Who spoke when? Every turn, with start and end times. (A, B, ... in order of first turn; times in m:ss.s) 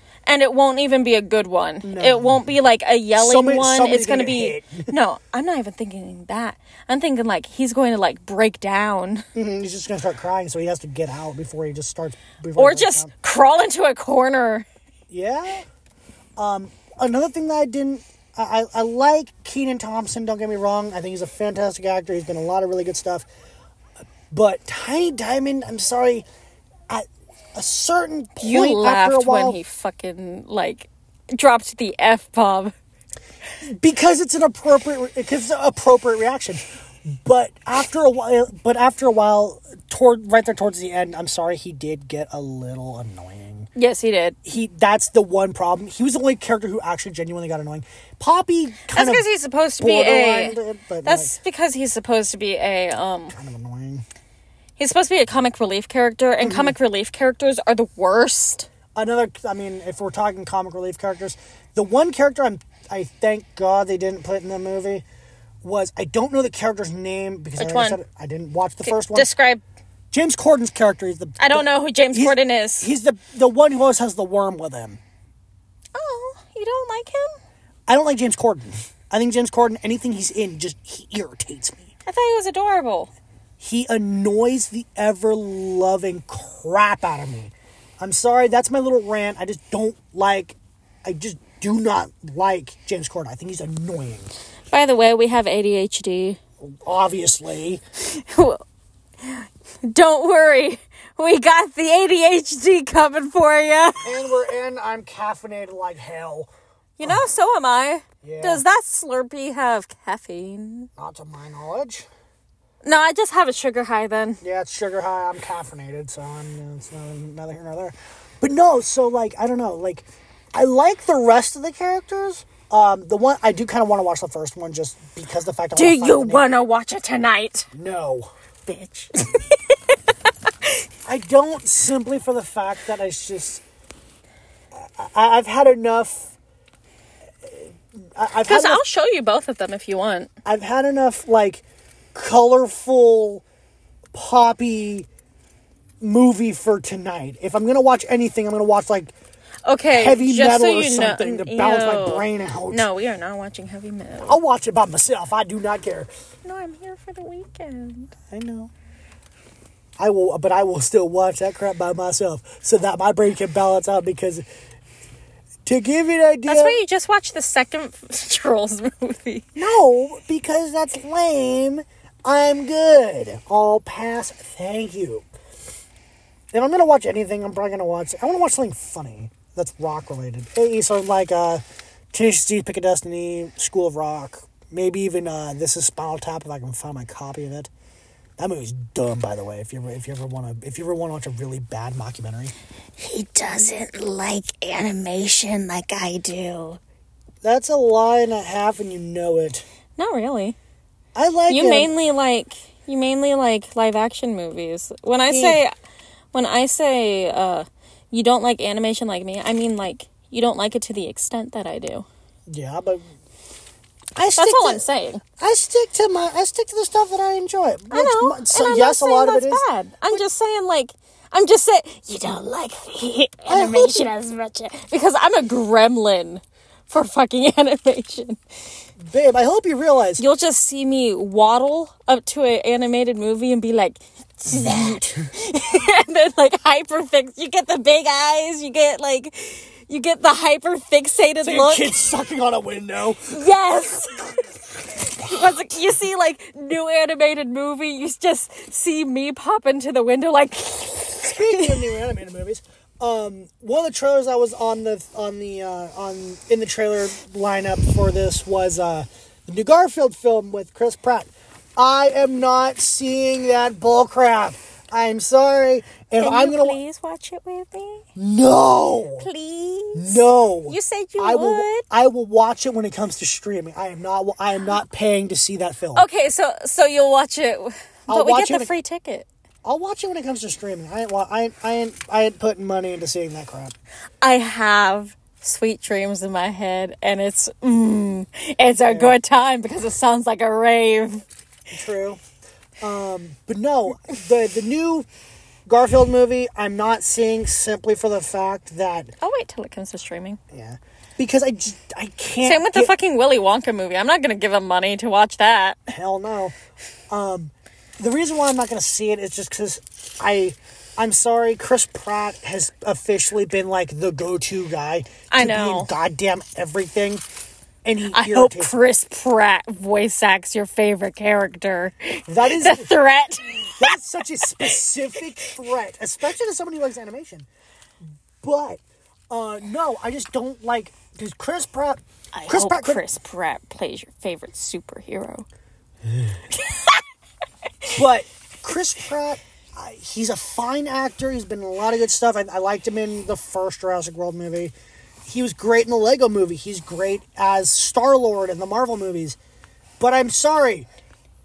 0:00.3-0:09.3 A
0:01.8-0:02.4 B
0:03.2-0:04.9 B
0:09.4-0:13.1 B
0:12.6-0:14.7 A
0:15.1-0:15.6 B
0:16.4-0:23.3 B
0:24.3-0:26.3 B
0:26.9-0:29.6 B
0:28.4-0:32.7 A
0:33.6-0:43.7 B
0:43.8-0:44.4 A
0:44.4-0:49.2 B
0:48.9-0:53.4 A
0:49.8-0:51.4 B
0:53.3-0:54.0 B
0:54.8-0:58.7 A
0:56.4-0:56.8 B
0:59.0-1:05.0 B
1:05.6-1:09.3 B
1:07.6-1:08.0 A
1:08.9-1:09.6 A
1:10.1-1:15.0 B
1:11.4-1:12.9 A
1:16.0-1:17.3 A
1:17.9-1:21.9 B
1:22.1-1:23.1 A
1:23.6-1:34.3 B
1:34.7-1:36.4 A
1:36.6-1:37.8 B
1:38.0-1:38.6 A
1:39.2-1:44.2 A
1:44.0-1:46.5 B
1:47.0-1:50.9 A
1:48.2-1:48.6 B
1:51.0-1:52.1 B
1:52.8-1:54.4 A
1:54.4-2:06.5 B
2:05.8-2:07.7 A
2:07.7-2:08.3 B
2:08.7-2:10.5 A
2:11.1-2:13.6 B
2:14.7-2:16.3 B
2:17.4-2:18.8 B
2:18.5-2:20.3 A
2:20.4-2:21.6 B
2:22.1-2:23.4 B
2:24.1-2:25.1 B
2:26.0-2:29.1 B
2:29.7-2:34.4 A
2:29.9-2:32.9 B
2:34.2-2:36.1 B
2:36.4-2:38.1 A
2:38.3-2:38.7 B
2:40.0-2:44.4 B
2:45.6-2:46.8 B
2:46.5-2:49.5 A
2:49.6-2:55.2 B
2:56.5-3:07.7 B
3:08.4-3:12.5 B
3:13.0-3:16.8 A
3:17.4-3:19.7 B
3:20.0-3:20.6 A
3:21.2-3:21.9 B
3:21.5-3:25.7 A
3:25.3-3:25.6 B
3:26.3-3:32.1 A
3:32.5-3:33.0 B
3:34.2-3:34.8 B
3:34.4-3:35.2 A
3:35.4-3:40.2 B
3:37.9-3:48.4 A
3:43.5-3:44.1 B
3:49.0-3:50.2 B
3:50.2-4:01.9 A
3:54.7-3:55.0 B
4:01.4-4:03.4 B
4:03.3-4:04.4 A
4:05.0-4:11.9 A
4:11.2-4:26.8 B
4:26.2-4:28.0 A
4:28.2-4:29.3 B
4:29.2-4:31.8 A
4:30.0-4:36.1 B
4:36.0-4:39.3 A
4:38.1-4:38.7 B
4:39.6-4:43.7 B
4:44.2-4:51.2 A
4:48.9-4:49.2 B
4:51.7-4:52.2 B
4:52.8-4:55.1 B
4:55.7-4:59.1 B
4:59.2-5:00.4 A
5:00.5-5:02.9 B
5:02.4-5:05.8 A
5:05.9-5:06.6 B
5:07.1-5:17.2 B
5:15.3-5:15.9 A
5:17.8-5:18.7 B
5:18.1-5:23.9 A
5:22.3-5:22.9 B
5:23.8-5:27.5 B
5:28.4-5:33.0 B
5:32.4-5:35.5 A
5:37.9-5:44.7 B
5:45.2-5:49.4 B
5:50.0-5:50.9 B